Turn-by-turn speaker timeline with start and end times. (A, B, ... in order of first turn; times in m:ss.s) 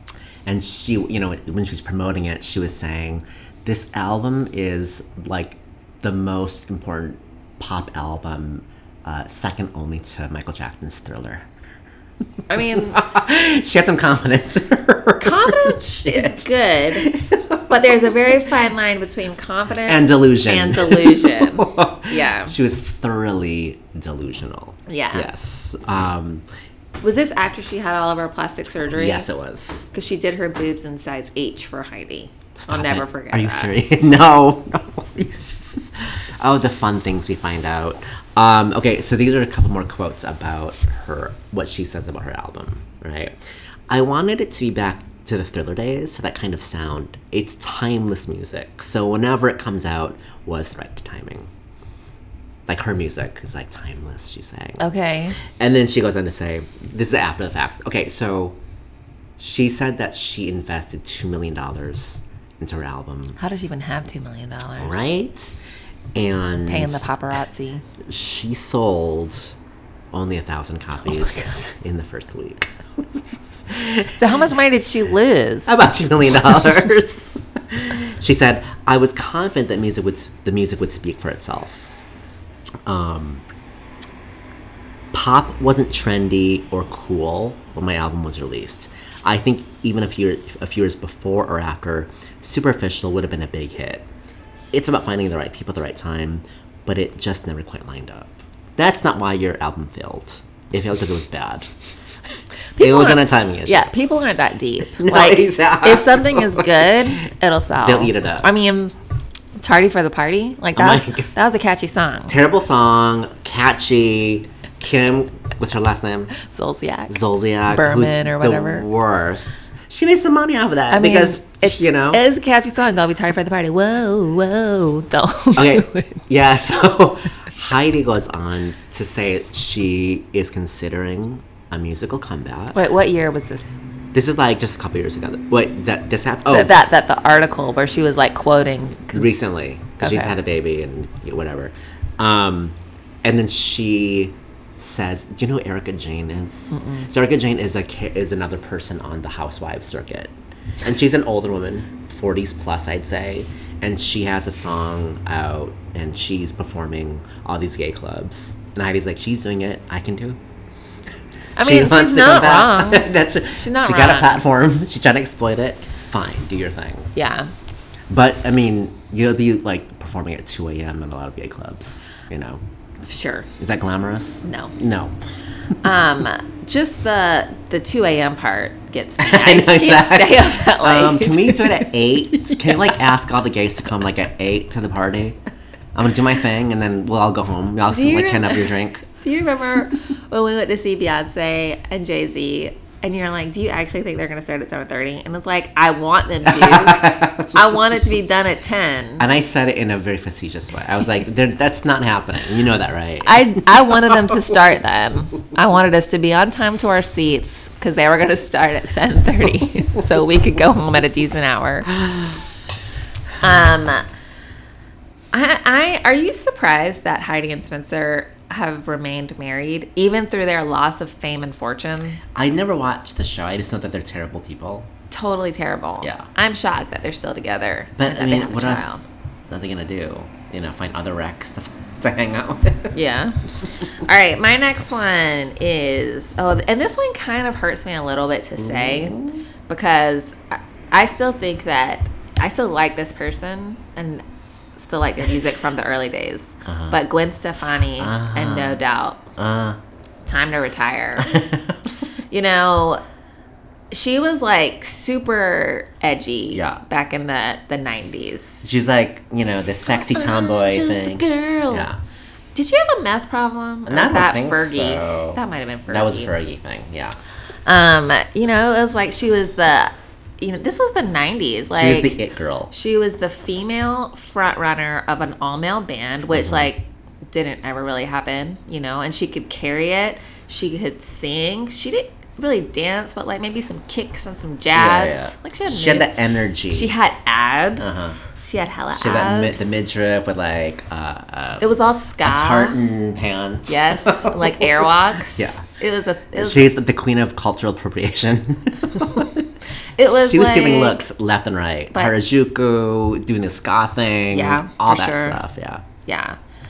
0:00.5-0:11.5 A
0:12.5-0:13.0 B
0:12.7-0:18.1 A
0:15.2-0:17.1 B
0:17.7-0:22.6 B
0:19.8-0:26.4 A
0:24.9-0:25.3 B
0:27.0-0:29.3 B
0:28.9-0:29.9 A
0:29.9-0:33.7 B
0:32.6-0:43.4 A
0:43.9-0:51.5 A
0:52.7-0:54.8 A
0:54.8-0:55.4 B
0:55.4-0:58.6 A
0:59.4-1:03.4 A
1:03.4-1:05.0 B
1:04.8-1:05.6 A
1:06.2-1:07.0 A
1:06.6-1:07.8 B
1:08.0-1:09.5 A
1:10.1-1:14.2 A
1:14.2-1:15.8 B
1:15.7-1:21.9 A
1:22.9-1:23.4 A
1:25.1-1:34.1 A
1:34.7-1:41.7 A
1:42.8-1:48.9 B
1:42.8-1:43.9 A
1:44.9-1:47.2 A
1:47.8-1:48.5 A
1:49.6-1:52.4 B
1:50.8-1:51.3 A
1:52.3-1:56.3 A
1:56.4-1:57.2 B
1:57.1-2:02.2 A
1:57.7-1:58.9 B
2:00.9-2:06.2 B
2:05.6-2:12.8 A
2:12.7-2:13.7 B
2:14.1-2:16.8 A
2:16.5-2:19.3 B
2:19.1-2:40.4 A
2:20.0-2:20.3 B
2:26.7-2:27.1 B
2:41.6-2:44.4 B
2:41.6-2:47.1 A
2:47.2-2:47.5 B
2:48.1-2:52.6 A
2:53.1-2:53.5 B
2:53.6-2:55.2 A
2:54.4-2:54.7 B
2:55.8-3:01.9 B
2:59.2-3:05.4 A
3:05.9-3:09.0 A
3:07.9-3:19.3 B
3:16.4-3:17.8 A
3:19.2-3:24.6 A
3:23.2-3:31.9 B
3:33.4-3:34.1 B
3:35.3-3:42.2 B
3:42.3-3:44.9 A
3:45.1-3:49.0 B
3:46.0-3:46.3 A
3:48.0-3:53.0 A
3:52.9-3:53.4 B
3:53.9-4:04.2 B
3:58.6-3:59.4 A
4:04.8-4:09.3 B
4:06.6-4:07.0 A
4:08.0-4:08.8 A
4:09.4-4:09.8 A
4:10.3-4:11.4 B
4:11.2-4:11.8 A
4:12.3-4:13.0 B
4:13.9-4:18.6 B
4:16.5-4:16.8 A
4:18.6-4:22.0 A
4:19.9-4:21.9 B
4:22.6-4:26.3 B
4:23.9-4:27.2 A
4:27.7-4:32.2 B
4:31.7-4:32.7 A
4:32.7-4:46.1 B
4:36.3-4:36.7 A
4:44.7-4:46.9 A
4:46.7-4:49.9 B
4:47.8-4:48.2 A
4:48.9-4:51.7 A
4:51.6-4:52.8 B
4:52.2-4:55.6 A
4:53.7-4:56.7 B
4:56.3-4:59.5 A
5:00.0-5:01.0 B
5:00.1-5:05.8 A
5:04.3-5:05.4 B
5:06.1-5:06.4 B